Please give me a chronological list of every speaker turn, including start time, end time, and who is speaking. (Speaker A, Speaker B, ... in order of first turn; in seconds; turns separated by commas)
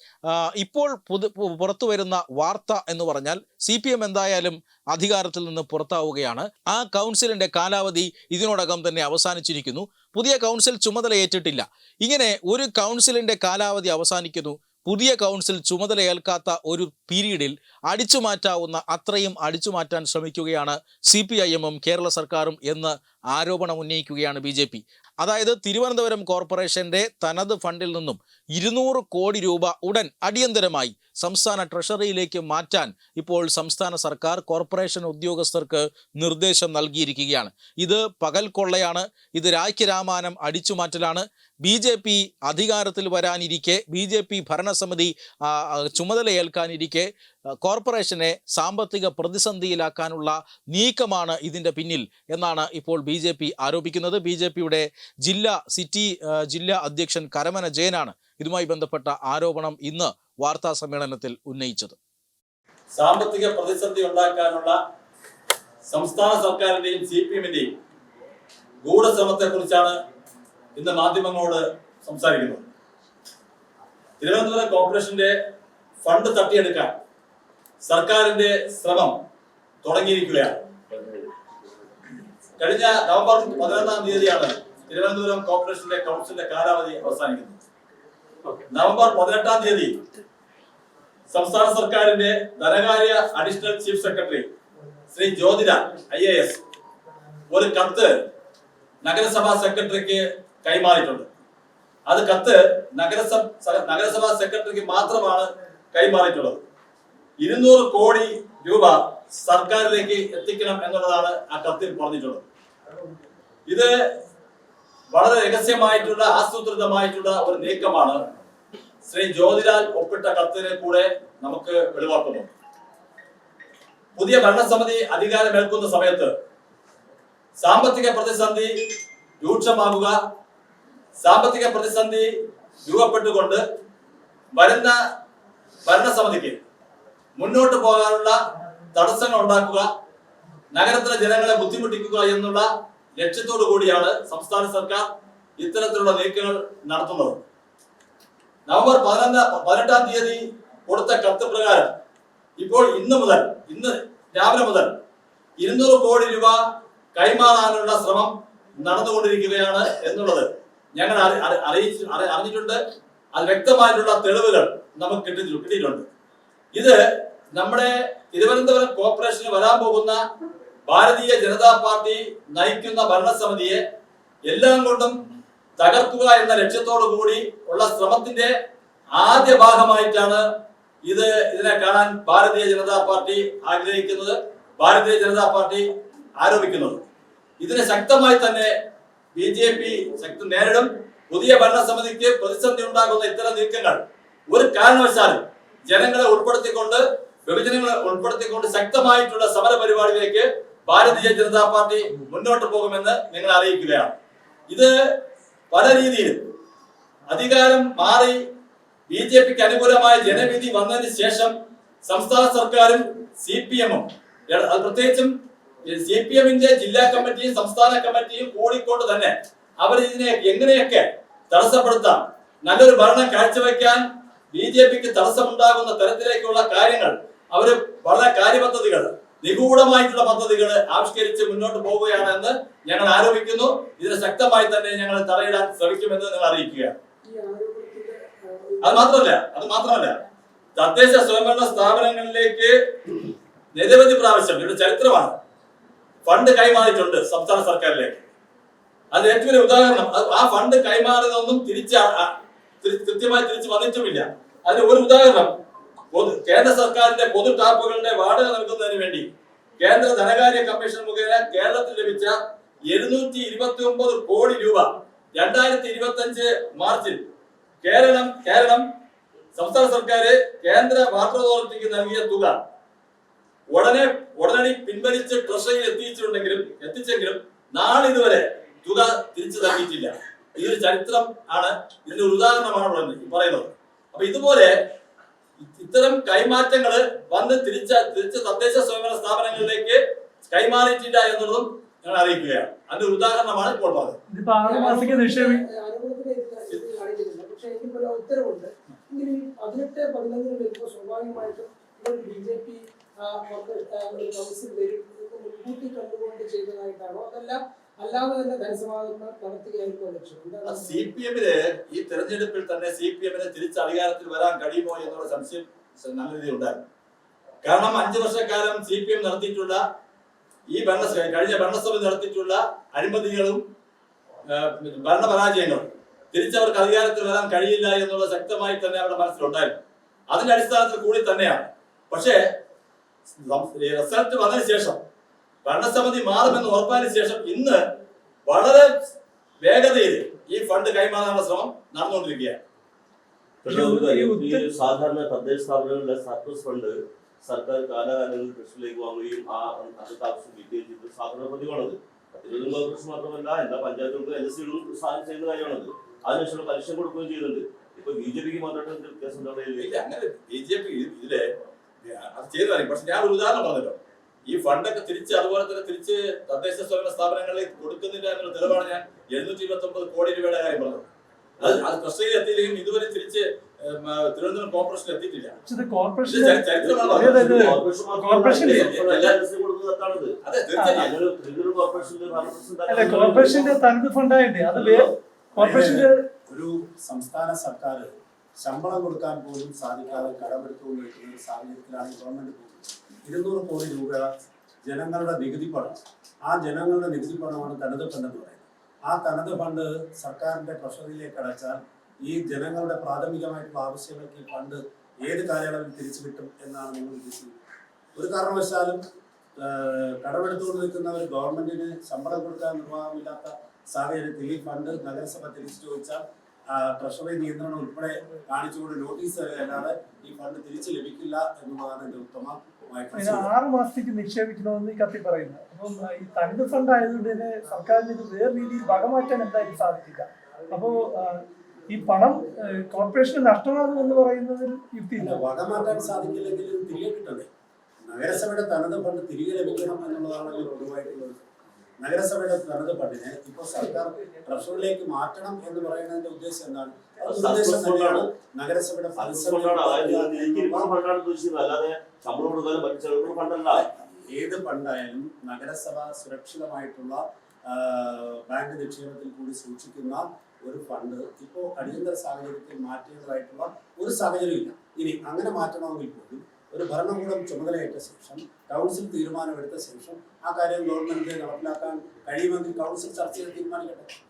Speaker A: 0.3-47.1, Speaker A: 47.6-62.0, Speaker B: 62.9-64.8, Speaker B: 65.9-67.7, Speaker B: 68.8-70.0, Speaker B: 70.7-72.7, Speaker B: 74.2-75.3, Speaker B: 76.0-76.9, Speaker B: 77.8-79.2, Speaker B: 79.8-80.6, Speaker B: 82.6-87.6, Speaker B: 88.7-90.0, Speaker B: 91.3-94.5, Speaker B: 95.1-96.6, Speaker B: 97.5-98.1, Speaker B: 99.0-101.3, Speaker B: 102.1-106.6, Speaker B: 107.4-112.4, Speaker B: 115.1-118.2, Speaker B: 119.0-122.5, Speaker B: 124.1-126.3, Speaker B: 127.6-128.7, Speaker B: 129.4-130.2, Speaker B: 131.2-132.3, Speaker B: 132.8-133.6, Speaker B: 134.5-135.0, Speaker B: 135.8-136.6, Speaker B: 137.3-138.3, Speaker B: 138.9-139.9, Speaker B: 140.7-145.1, Speaker B: 145.6-147.4, Speaker B: 148.7-151.9, Speaker B: 152.6-154.9, Speaker B: 155.6-156.6, Speaker B: 157.1-162.8, Speaker B: 163.3-166.1, Speaker B: 166.7-167.0, Speaker B: 167.5-170.2, Speaker B: 170.9-173.8, Speaker B: 174.5-175.2, Speaker B: 175.8-178.5, Speaker B: 179.2-180.4, Speaker B: 181.0-185.9, Speaker B: 186.4-187.0, Speaker B: 187.6-188.7, Speaker B: 189.3-204.1, Speaker B: 205.7-206.4, Speaker B: 207.3-208.4, Speaker B: 209.1-211.5, Speaker B: 212.0-215.3, Speaker B: 215.9-236.9, Speaker C: 237.3-238.8, Speaker B: 238.8-240.2, Speaker B: 240.8-243.2, Speaker B: 243.7-245.3, Speaker B: 246.2-248.2, Speaker B: 249.1-255.5, Speaker B: 256.1-259.3, Speaker B: 259.8-262.3, Speaker B: 262.9-267.2, Speaker B: 267.8-268.8, Speaker B: 269.5-272.5, Speaker B: 273.7-284.7, Speaker B: 285.6-294.2, Speaker D: 294.3-295.6, Speaker C: 295.8-298.7, Speaker C: 299.3-302.7, Speaker C: 303.4-310.8, Speaker B: 310.6-316.9, Speaker B: 317.6-319.8, Speaker B: 320.7-323.6, Speaker B: 324.5-329.8, Speaker B: 330.3-332.4, Speaker B: 333.4-335.0, Speaker B: 335.6-337.8, Speaker B: 338.5-338.9, Speaker B: 339.6-342.6, Speaker E: 343.6-359.8, Speaker D: 343.6-344.7, Speaker B: 359.8-361.4, Speaker B: 362.0-371.1, Speaker B: 371.6-375.6, Speaker D: 375.6-378.9, Speaker B: 376.2-377.7, Speaker E: 376.8-380.4, Speaker B: 378.6-379.4, Speaker B: 380.4-381.1, Speaker D: 380.7-381.0, Speaker E: 380.9-383.8, Speaker D: 382.9-386.1, Speaker E: 384.7-385.1, Speaker F: 385.5-394.3, Speaker F: 394.9-407.5, Speaker F: 408.1-409.0, Speaker F: 409.6-416.2, Speaker F: 416.7-423.5, Speaker D: 423.1-435.4, Speaker F: 435.2-437.5, Speaker F: 438.0-441.4, Speaker F: 442.0-450.9, Speaker E: 447.2-448.2, Speaker E: 449.1-453.8, Speaker F: 453.7-474.1